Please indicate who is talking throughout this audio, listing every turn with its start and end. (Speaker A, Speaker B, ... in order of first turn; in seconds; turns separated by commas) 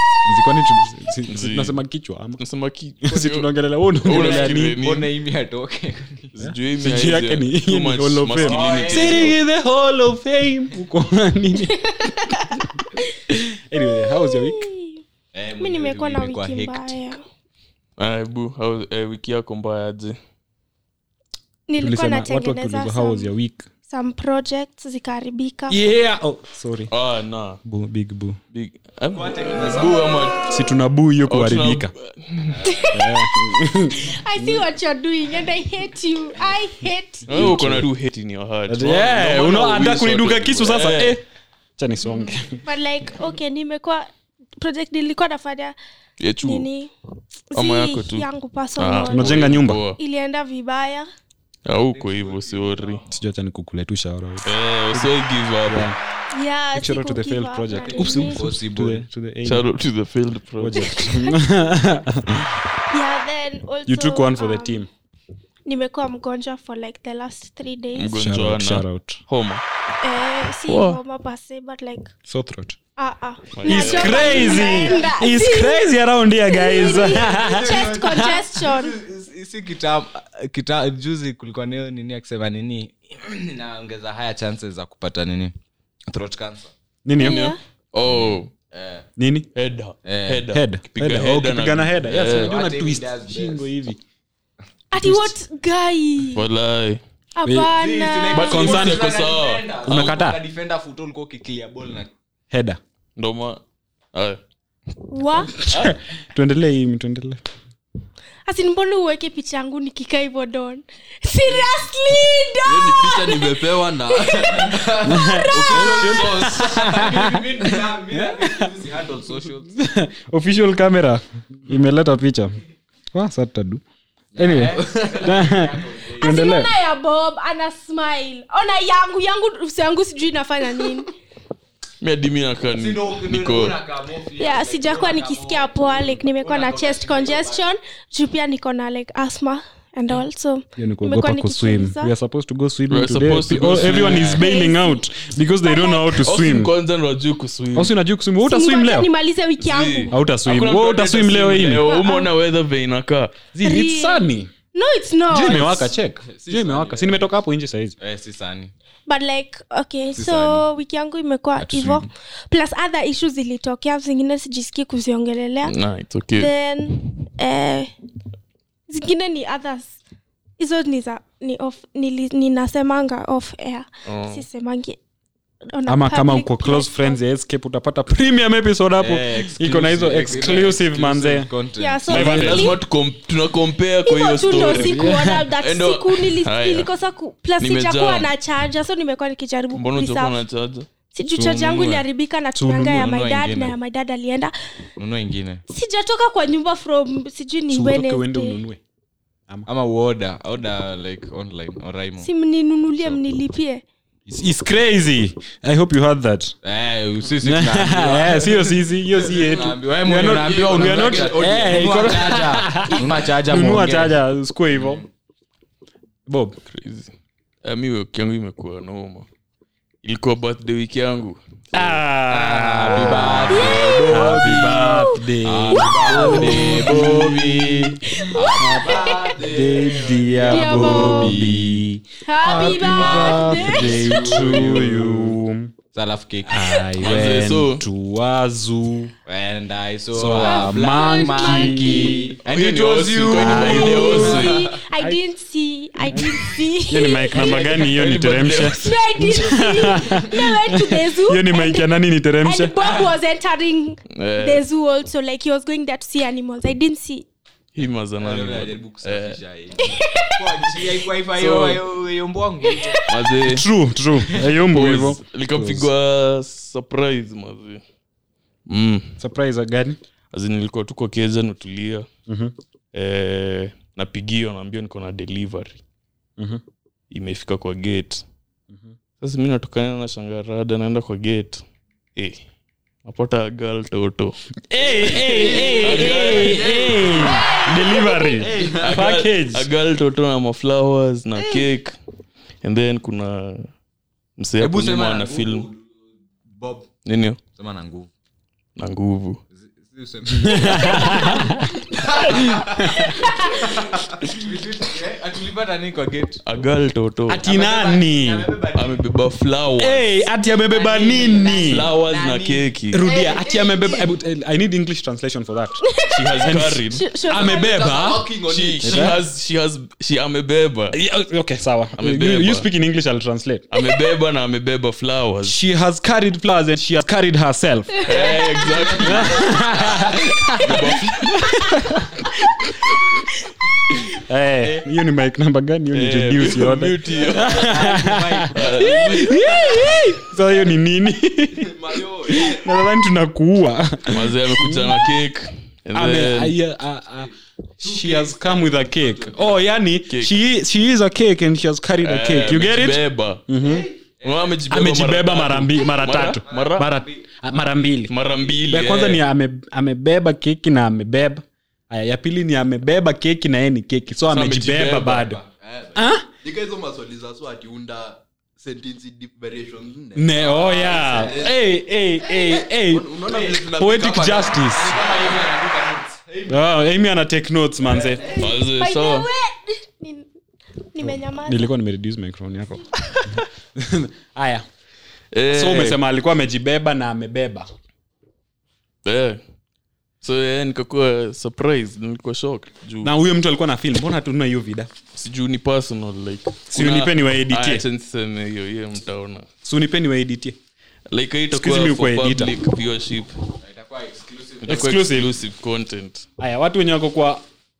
Speaker A: 0.2-2.4, Speaker B: 1.3-1.8, Speaker B: 2.4-3.5, Speaker A: 3.0-4.8, Speaker B: 4.0-5.1, Speaker C: 4.0-6.3, Speaker B: 6.3-9.4, Speaker A: 6.4-12.7, Speaker C: 8.4-9.3, Speaker D: 11.6-13.1, Speaker A: 13.3-14.6, Speaker D: 13.8-15.0, Speaker C: 15.3-17.0, Speaker D: 15.6-17.2, Speaker B: 18.0-20.2, Speaker D: 21.7-23.3, Speaker A: 21.8-23.7, Speaker D: 23.9-25.8, Speaker A: 25.7-26.9, Speaker B: 26.9-27.6, Speaker A: 27.6-28.4, Speaker B: 28.5-30.5, Speaker C: 29.1-30.3, Speaker A: 30.5-31.9, Speaker B: 31.2-32.6, Speaker C: 32.5-32.9, Speaker D: 32.6-33.3, Speaker A: 32.9-34.6, Speaker D: 33.9-37.2, Speaker A: 37.2-37.9, Speaker B: 37.3-41.2, Speaker A: 38.7-41.2, Speaker A: 41.8-42.6, Speaker D: 42.6-44.1, Speaker D: 44.6-45.8, Speaker B: 46.2-46.7, Speaker D: 46.4-46.9, Speaker D: 47.5-51.1, Speaker B: 47.5-48.3, Speaker B: 48.8-50.0, Speaker A: 49.1-49.8, Speaker B: 51.6-53.0, Speaker C: 51.8-53.1, Speaker A: 53.1-55.1, Speaker B: 54.4-55.9, Speaker A: 55.6-56.0, Speaker D: 56.3-58.4, Speaker A: 56.7-59.7, Speaker C: 57.8-59.0, Speaker B: 59.4-61.2, Speaker A: 60.6-62.6, Speaker D: 60.8-61.3, Speaker D: 62.9-64.8, Speaker A: 63.9-64.9, Speaker D: 65.6-68.1, Speaker B: 67.9-69.6, Speaker A: 68.1-69.2, Speaker D: 70.0-72.1, Speaker B: 70.7-71.0, Speaker A: 72.2-72.8, Speaker D: 73.0-79.0, Speaker B: 73.5-74.8, Speaker A: 73.7-78.0, Speaker C: 76.8-85.5, Speaker C: 86.1-86.7, Speaker A: 87.0-87.5, Speaker D: 87.2-87.6, Speaker B: 87.2-88.5, Speaker C: 88.0-89.0, Speaker A: 89.2-89.5, Speaker B: 89.5-92.6, Speaker C: 90.0-90.4, Speaker A: 90.5-94.0, Speaker C: 92.1-93.7, Speaker D: 94.9-96.4, Speaker A: 94.9-95.3, Speaker B: 96.3-97.0, Speaker D: 97.3-98.7, Speaker A: 97.4-97.7, Speaker C: 97.7-102.1, Speaker B: 98.3-100.2, Speaker A: 98.4-99.0, Speaker A: 99.8-100.4, Speaker A: 102.5-102.8, Speaker B: 103.2-103.6, Speaker B: 104.1-104.4, Speaker D: 105.1-105.6, Speaker B: 105.7-106.0, Speaker A: 105.7-107.4, Speaker D: 108.5-116.1, Speaker E: 112.6-117.2, Speaker A: 115.0-118.7, Speaker C: 116.0-119.7, Speaker A: 119.7-122.6, Speaker A: 123.1-123.8, Speaker C: 124.3-126.3, Speaker A: 124.3-126.7, Speaker E: 124.8-125.1, Speaker D: 126.2-131.1, Speaker B: 132.0-133.8, Speaker C: 132.7-137.6, Speaker D: 134.4-142.1, Speaker A: 140.8-146.7, Speaker B: 142.9-144.4, Speaker C: 143.9-144.4, Speaker D: 144.2-145.0, Speaker D: 145.6-146.2, Speaker B: 146.2-147.9, Speaker A: 147.7-149.1, Speaker D: 148.4-150.1, Speaker B: 149.6-153.3, Speaker A: 150.1-151.8, Speaker D: 151.8-152.3, Speaker A: 153.5-154.5, Speaker D: 153.6-155.8, Speaker A: 155.3-158.0, Speaker E: 156.4-156.9, Speaker C: 156.4-157.0, Speaker C: 158.0-158.7, Speaker D: 159.1-165.7, Speaker C: 160.1-160.6, Speaker A: 161.6-162.1, Speaker B: 165.6-167.0, Speaker D: 166.3-167.9, Speaker D: 168.9-170.0, Speaker D: 170.6-175.0, Speaker B: 174.1-174.4, Speaker D: 175.7-177.2, Speaker A: 175.9-181.5, Speaker C: 179.0-182.5, Speaker D: 181.8-182.8, Speaker B: 182.1-186.9, Speaker A: 182.1-182.8, Speaker D: 184.0-190.4, Speaker A: 184.7-185.5, Speaker B: 187.6-188.3, Speaker B: 189.7-190.9, Speaker D: 191.1-194.5, Speaker C: 191.3-192.1, Speaker C: 192.6-193.8, Speaker C: 195.0-195.6, Speaker D: 195.7-198.6, Speaker A: 197.7-198.8, Speaker C: 199.7-202.3, Speaker D: 202.2-203.8, Speaker A: 204.3-206.5, Speaker C: 206.6-214.2, Speaker A: 207.4-215.1, Speaker E: 209.2-212.3, Speaker C: 214.7-215.0, Speaker A: 216.3-216.6, Speaker B: 216.7-217.1, Speaker B: 217.6-219.3, Speaker B: 220.0-222.0, Speaker A: 221.7-235.7, Speaker C: 222.3-224.0, Speaker B: 223.2-227.9, Speaker D: 223.5-225.9, Speaker C: 225.4-231.9, Speaker D: 228.1-229.3, Speaker E: 228.8-230.2, Speaker D: 230.5-231.4, Speaker D: 232.2-234.7, Speaker C: 232.4-235.0, Speaker E: 233.0-233.4, Speaker C: 235.9-236.6, Speaker A: 236.5-239.1, Speaker B: 237.0-237.8, Speaker C: 239.2-244.8, Speaker A: 240.1-242.3, Speaker D: 240.3-242.2, Speaker B: 242.4-244.7, Speaker A: 243.3-245.2, Speaker D: 243.7-247.9, Speaker A: 246.0-253.0, Speaker B: 247.3-249.0, Speaker D: 248.6-251.9, Speaker D: 252.4-257.3, Speaker B: 254.2-254.6, Speaker B: 257.7-259.4, Speaker C: 258.2-263.0, Speaker D: 259.8-260.8, Speaker B: 261.3-261.8, Speaker D: 262.7-263.1, Speaker B: 263.1-263.7, Speaker A: 263.4-265.9, Speaker B: 264.4-267.8, Speaker B: 268.7-269.2, Speaker A: 269.2-270.0, Speaker B: 270.3-272.1, Speaker A: 272.3-272.5, Speaker B: 272.9-275.8, Speaker A: 276.4-276.6, Speaker B: 277.1-278.2, Speaker A: 278.7-278.9, Speaker B: 279.2-281.6, Speaker B: 282.1-282.4, Speaker B: 283.0-284.4, Speaker A: 284.7-289.7, Speaker C: 285.0-286.8, Speaker B: 285.3-287.1, Speaker E: 285.4-285.8, Speaker D: 285.5-285.8, Speaker E: 286.3-287.0, Speaker D: 286.9-288.5, Speaker C: 288.4-289.0, Speaker B: 288.7-291.9, Speaker B: 292.6-293.7, Speaker B: 294.4-295.7, Speaker C: 294.6-295.9, Speaker C: 296.6-296.9, Speaker B: 297.0-297.4, Speaker C: 297.5-298.1, Speaker B: 298.8-299.4, Speaker C: 299.5-306.4, Speaker A: 300.2-303.3, Speaker D: 300.6-301.6, Speaker D: 302.9-303.7, Speaker A: 303.9-304.3, Speaker B: 306.4-307.4, Speaker A: 307.3-308.5, Speaker C: 307.4-309.0, Speaker B: 308.7-310.1, Speaker A: 309.8-311.9, Speaker C: 310.5-312.7, Speaker B: 311.5-313.0, Speaker A: 312.9-315.8, Speaker D: 313.0-314.1, Speaker D: 315.8-317.9, Speaker B: 316.1-317.1, Speaker A: 316.4-318.3, Speaker E: 317.4-319.1, Speaker B: 318.4-321.0, Speaker A: 318.8-319.2, Speaker A: 320.9-323.7, Speaker B: 322.0-322.7, Speaker B: 323.7-325.6, Speaker A: 325.4-328.0, Speaker B: 328.0-331.5, Speaker C: 328.1-328.4, Speaker D: 328.1-328.9, Speaker E: 328.9-329.6, Speaker A: 329.0-332.3, Speaker C: 329.7-330.2, Speaker A: 334.1-341.7, Speaker B: 335.9-338.0, Speaker C: 337.2-340.1, Speaker B: 338.5-340.0, Speaker E: 341.6-342.7, Speaker A: 342.2-345.0, Speaker B: 344.1-346.6, Speaker A: 345.9-353.9, Speaker C: 347.8-349.5, Speaker B: 350.1-350.3, Speaker B: 352.0-353.4, Speaker C: 353.6-354.6, Speaker B: 354.2-356.9, Speaker A: 354.7-365.4, Speaker C: 356.4-357.2, Speaker B: 358.1-359.2, Speaker B: 364.3-365.4, Speaker E: 365.5-371.6, Speaker A: 365.9-366.3, Speaker A: 370.1-375.0, Speaker C: 370.5-371.6, Speaker E: 372.8-375.4, Speaker C: 373.3-373.6, Speaker C: 374.6-376.2, Speaker E: 376.2-376.6, Speaker A: 376.5-378.3, Speaker E: 378.0-378.4, Speaker D: 378.3-380.3, Speaker B: 378.3-379.3, Speaker D: 380.9-381.7, Speaker A: 381.0-384.6, Speaker B: 385.3-386.0, Speaker A: 385.5-387.7, Speaker B: 389.0-389.4, Speaker B: 390.2-393.1, Speaker A: 393.0-394.9, Speaker B: 395.1-399.5, Speaker A: 396.7-397.8, Speaker A: 399.6-400.6, Speaker B: 401.1-403.3, Speaker A: 401.5-402.5, Speaker C: 403.6-404.8, Speaker B: 404.6-406.2, Speaker A: 404.7-405.4, Speaker A: 406.4-407.4